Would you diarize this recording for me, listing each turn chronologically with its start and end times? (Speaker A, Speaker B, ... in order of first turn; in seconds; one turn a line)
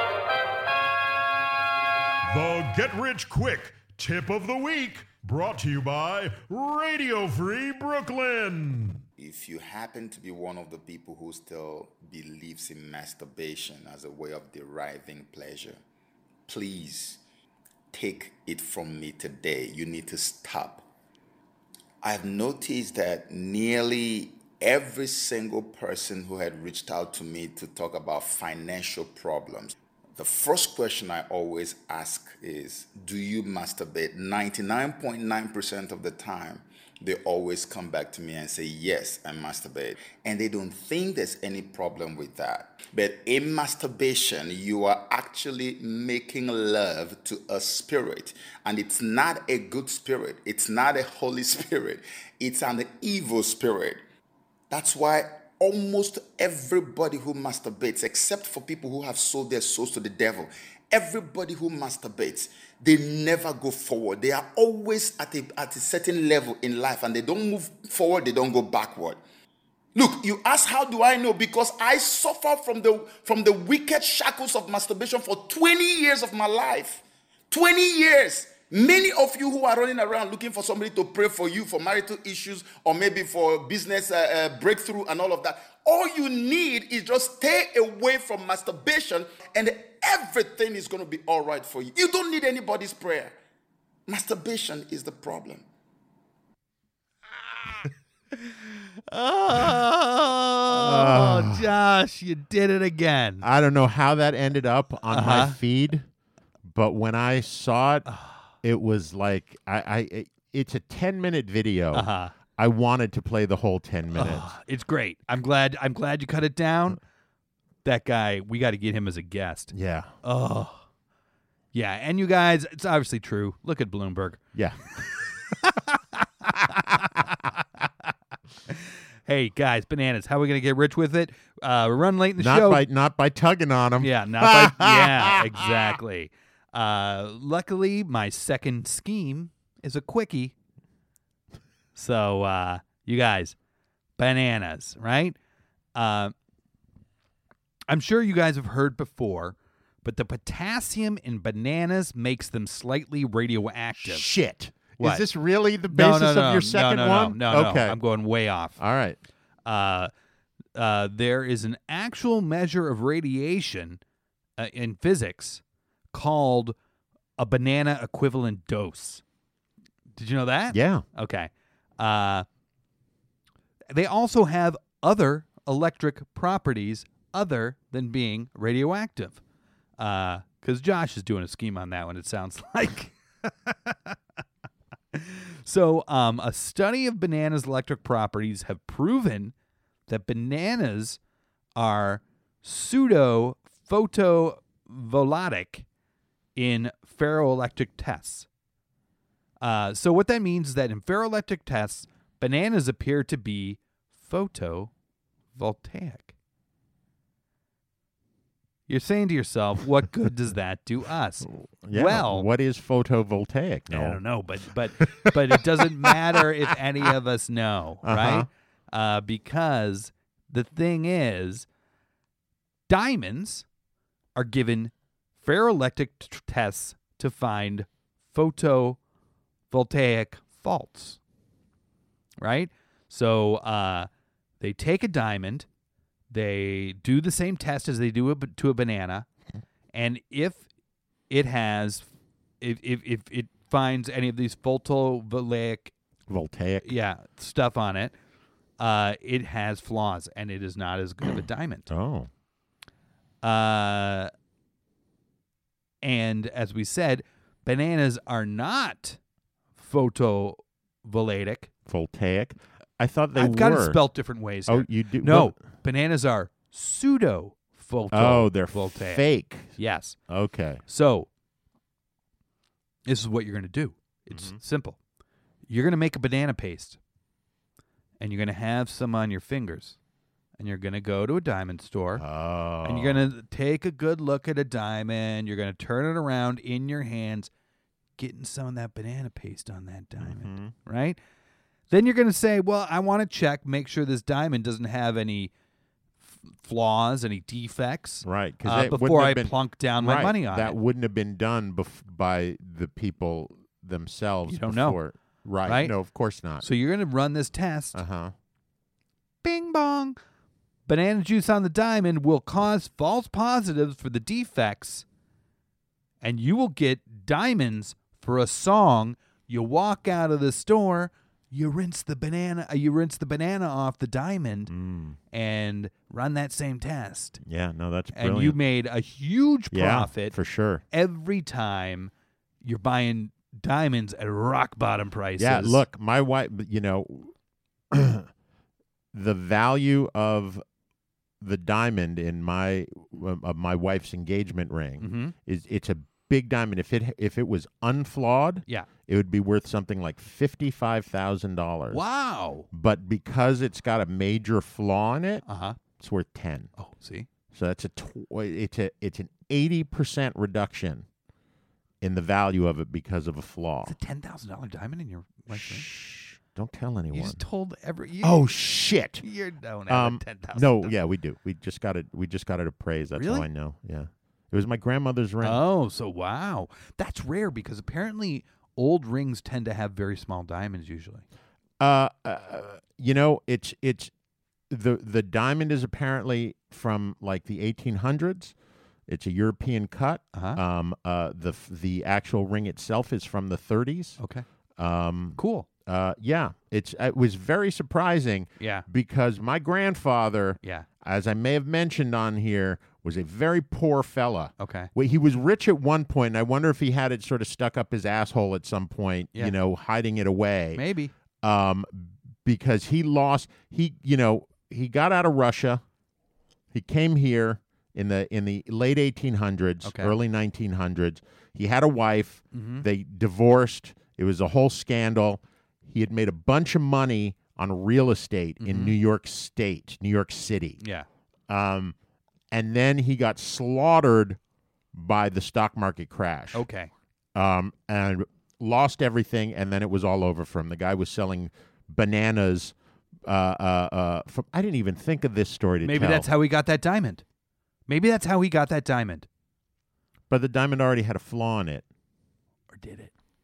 Speaker A: 2.3-9.0
Speaker B: 9.2-15.8
Speaker B: 16.5-17.2
Speaker B: 17.9-20.9
Speaker B: 22.0-54.0
Speaker B: 54.7-69.2
Speaker B: 69.9-93.3
Speaker B: 94.1-95.6
Speaker C: 99.1-103.4
Speaker D: 100.7-101.7
Speaker D: 103.4-106.0
Speaker C: 105.1-105.6
Speaker D: 106.7-108.0
Speaker C: 108.1-108.4
Speaker D: 108.6-114.5
Speaker C: 111.9-112.3
Speaker C: 114.1-117.0
Speaker C: 117.8-120.8
Speaker D: 119.7-120.1
Speaker C: 121.7-124.4
Speaker D: 124.5-125.0
Speaker C: 125.6-127.2
Speaker D: 126.6-127.0
Speaker C: 128.7-132.8
Speaker D: 132.4-135.9
Speaker C: 134.0-140.5
Speaker C: 141.9-143.6
Speaker C: 144.2-145.3
Speaker C: 145.9-146.3
Speaker C: 147.9-154.3
Speaker D: 153.9-158.0
Speaker C: 155.9-158.8
Speaker D: 158.8-159.2
Speaker C: 159.7-160.1
Speaker C: 160.7-164.0
Speaker C: 164.6-165.6
Speaker C: 166.1-166.7
Speaker C: 167.4-169.2
Speaker C: 170.1-172.4
Speaker D: 170.7-171.0
Speaker C: 173.9-179.4
Speaker C: 180.0-184.2
Speaker C: 185.1-189.5
Speaker C: 190.1-191.2
Speaker C: 191.8-195.8
Speaker C: 196.6-198.5
Speaker C: 199.6-204.9
Speaker C: 205.5-206.3
Speaker C: 208.9-212.4
Speaker D: 211.5-214.2
Speaker C: 213.9-221.7
Speaker D: 215.2-216.5
Speaker D: 218.0-218.5
Speaker C: 222.9-223.7
Speaker C: 224.3-229.0
Speaker C: 229.7-231.2
Speaker C: 232.4-234.1
Speaker C: 234.6-235.7
Speaker C: 236.3-239.3
Speaker C: 239.9-240.7
Speaker C: 241.3-242.1
Speaker C: 242.6-245.9
Speaker D: 246.3-246.9
Speaker C: 246.8-248.1
Speaker C: 248.8-251.9
Speaker D: 251.9-252.3
Speaker C: 253.4-254.3
Speaker C: 256.0-259.2
Speaker C: 259.8-261.7
Speaker D: 261.9-264.0
Speaker C: 263.3-269.2
Speaker D: 264.7-265.6
Speaker D: 268.1-269.8
Speaker C: 269.8-270.1
Speaker D: 270.3-270.8
Speaker C: 270.9-271.3
Speaker C: 273.1-275.0
Speaker D: 274.3-274.6
Speaker C: 275.7-277.0
Speaker C: 278.2-280.0
Speaker C: 280.6-282.2
Speaker D: 282.2-283.3
Speaker C: 282.8-287.5
Speaker C: 288.2-291.2
Speaker D: 290.2-290.7
Speaker C: 291.9-295.5
Speaker C: 296.4-300.8
Speaker D: 298.2-306.6
Speaker C: 304.5-305.0
Speaker C: 305.6-305.9
Speaker C: 306.6-308.0
Speaker D: 307.9-308.3
Speaker C: 309.4-310.2
Speaker C: 310.9-315.0
Speaker C: 316.2-324.7
Speaker D: 324.7-325.2
Speaker C: 325.3-327.4
Speaker D: 327.4-328.6
Speaker C: 328.1-330.4
Speaker D: 329.7-330.8
Speaker C: 330.9-332.1
Speaker C: 332.6-335.8
Speaker D: 335.4-337.3
Speaker D: 337.9-338.3
Speaker D: 339.1-340.6
Speaker D: 341.4-352.0
Speaker C: 345.0-345.3
Speaker C: 351.9-352.7
Speaker D: 352.7-355.4
Speaker C: 355.4-355.8
Speaker D: 356.0-356.7
Speaker C: 356.8-357.3
Speaker D: 357.5-361.1
Speaker D: 362.0-363.9
Speaker C: 363.8-365.9
Speaker D: 365.5-367.4
Speaker C: 367.1-368.5
Speaker D: 368.2-369.2
Speaker C: 369.2-370.9
Speaker D: 369.9-375.6
Speaker C: 373.1-373.5
Speaker C: 375.4-381.2
Speaker D: 381.8-384.1
Speaker D: 384.7-388.5
Speaker D: 389.1-394.2
Speaker C: 390.3-390.6
Speaker C: 394.2-394.4
Speaker D: 394.8-410.8
Speaker C: 395.4-395.6
Speaker C: 398.6-398.8
Speaker C: 404.6-404.9
Speaker C: 410.7-411.1
Speaker D: 411.4-415.8
Speaker D: 416.7-430.8
Speaker C: 419.8-420.1
Speaker C: 422.5-422.8
Speaker C: 428.6-428.9
Speaker C: 430.8-431.1
Speaker D: 431.5-431.9
Speaker D: 432.5-434.4
Speaker D: 434.9-436.6
Speaker C: 436.5-436.9
Speaker D: 437.3-446.3
Speaker C: 445.8-447.2
Speaker C: 447.9-449.2
Speaker D: 450.3-451.8
Speaker C: 452.7-453.1